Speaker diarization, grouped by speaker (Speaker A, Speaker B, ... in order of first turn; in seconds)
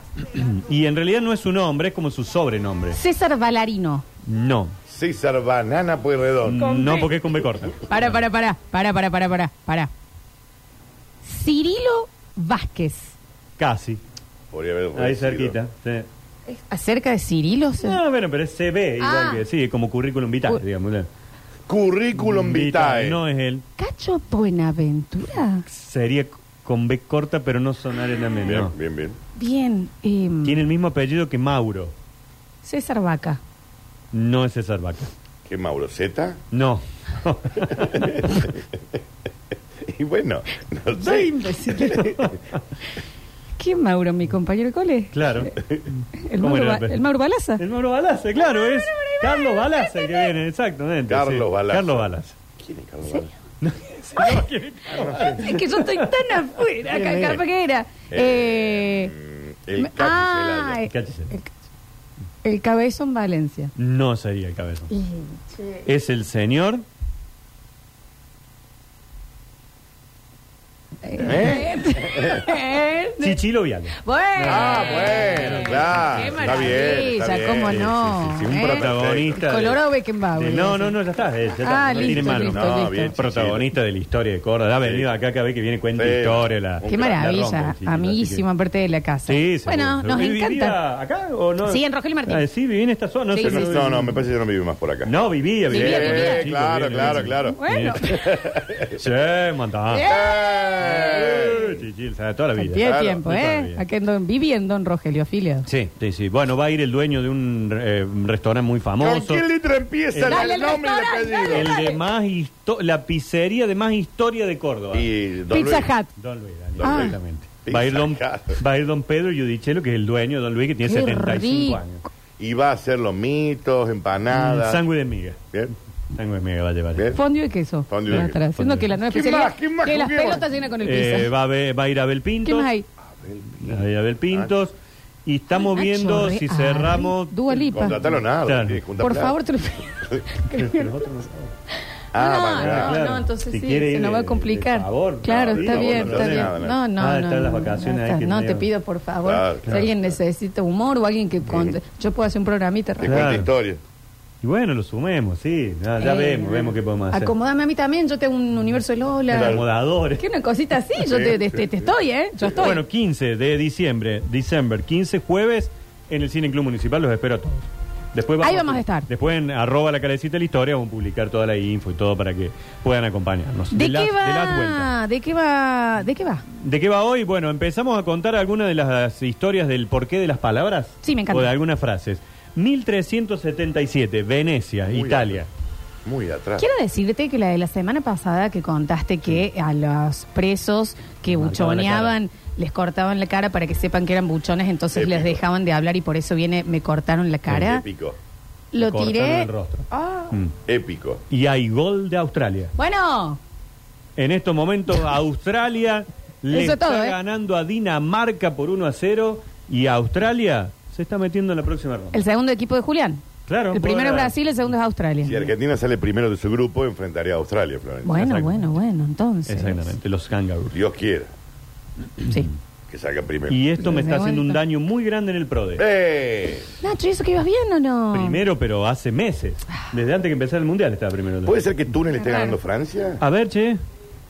Speaker A: 0.3-3.0, 4.2-4.8, 6.4-7.8, 13.6-14.0, 14.9-16.1, 17.8-21.1, 22.2-23.6, 25.6-28.7, 30.4-31.9, 34.1-35.1, 36.5-38.5, 41.7-42.6, 45.1-47.0, 47.6-52.4, 53.6-56.1, 56.8-57.4, 60.9-61.3, 63.8-64.9, 65.8-66.8, 73.2-77.0, 77.7-79.8, 80.4-88.4, 89.3-94.2, 95.0-98.3, 98.8-100.1, 100.8-103.8, 105.7-109.4, 110.1-110.5, 111.5-115.1, 116.2-122.0, 124.3-125.4, 126.1-127.1, 128.1-128.9, 130.8-132.7, 133.6-134.7, 135.2-138.8, 140.5-141.5, 142.6-148.7, 153.0-153.5, 154.4-157.3, 159.3-160.2, 162.6-174.9, 176.5-185.5, 191.3-192.1, 198.8-200.5, 201.3-202.7, 204.2-212.2, 213.5-214.3, 218.1-218.6, 219.5-220.8, 223.5-225.8, 228.1-231.6, 233.2-233.8
Speaker B: 2.9-4.0, 6.5-7.1, 7.7-9.9, 11.2-13.2, 16.5-18.0, 19.0-19.4, 23.8-25.6, 29.4-30.6, 32.6-33.4, 40.9-41.9, 43.6-45.6, 46.1-47.6, 48.4-50.3, 54.2-54.4, 55.1-59.1, 59.8-61.5, 62.4-63.7, 64.9-65.8, 71.0-73.4, 74.0-80.9, 81.6-83.1, 86.8-90.8, 91.6-92.4, 93.3-93.7, 95.7-96.5, 97.4-98.4, 99.9-101.5, 102.5-105.7, 110.2-112.0, 115.5-116.1, 116.8-117.1, 120.8-121.8, 127.1-131.3, 132.4-132.8, 135.5-138.1, 139.0-141.0, 142.1-153.3, 156.0-159.6, 160.2-162.8, 168.4-169.1, 173.7-176.4, 181.0-181.5, 186.6-197.8, 198.7-200.3, 202.8-203.4, 206.5-207.2, 212.1-215.5, 218.0-219.9, 222.2-222.5, 223.8-224.6, 226.8-228.4, 232.1-232.6
Speaker C: 4.9-6.7, 14.5-15.6, 21.7-23.2, 28.4-29.2, 35.5-36.4, 37.7-38.8, 39.8-42.4, 51.1-53.3, 54.9-55.4, 58.1-60.8, 71.2-72.5, 74.4-79.4, 81.9-83.7, 84.8-85.1, 86.0-87.2, 93.4-99.0, 100.0-101.8, 102.8-103.2, 109.0-111.8, 114.9-115.9, 116.8-118.6, 122.4-124.8, 127.0-127.2, 127.9-128.4, 129.1-130.5, 133.1-134.5, 137.7-139.4, 142.1-143.0, 145.4-146.8, 149.2-150.1, 151.5-151.8, 153.0-153.8, 159.3-159.6, 161.0-161.9, 162.4-162.7, 184.9-185.4, 186.0-186.7, 194.9-195.4, 197.5-198.2, 200.7-201.2, 215.2-218.2, 220.7-221.3, 222.9-223.6, 225.8-226.7, 231.4-233.2